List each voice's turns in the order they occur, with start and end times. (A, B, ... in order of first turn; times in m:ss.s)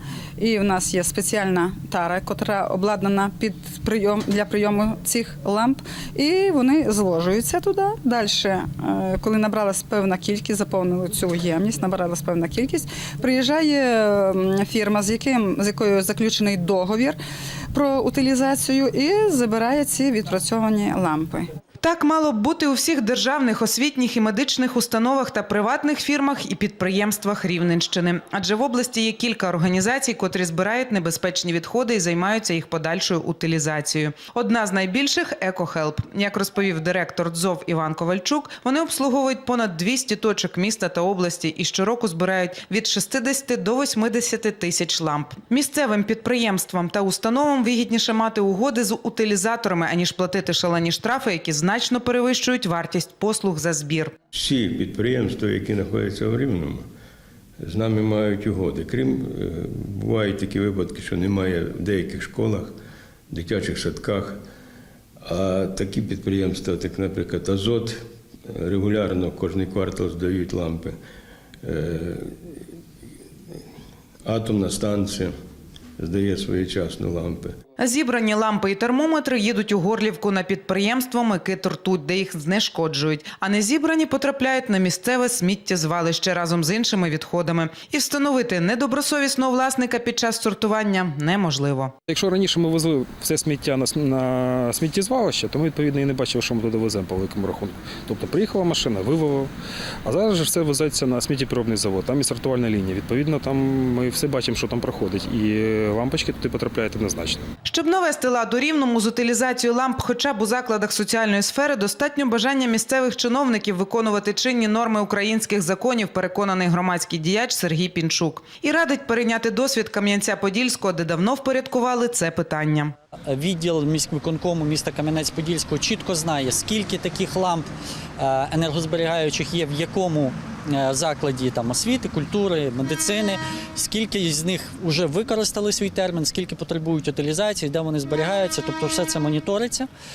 0:00.4-0:17.2 A
0:17.7-0:21.4 A
0:21.8-0:54.1 B
0:54.3-0:56.8 C
0:57.6-1:02.7 C
1:03.3-1:04.4 C
1:05.2-1:10.9 C
1:11.6-1:12.3 C
1:14.2-1:15.3 C
1:16.0-1:17.5 C
1:17.8-1:31.9 B
1:32.1-1:39.5 D
1:40.0-1:47.4 D
1:47.6-2:02.9 B
2:03.3-2:07.6 E
2:08.2-2:19.9 E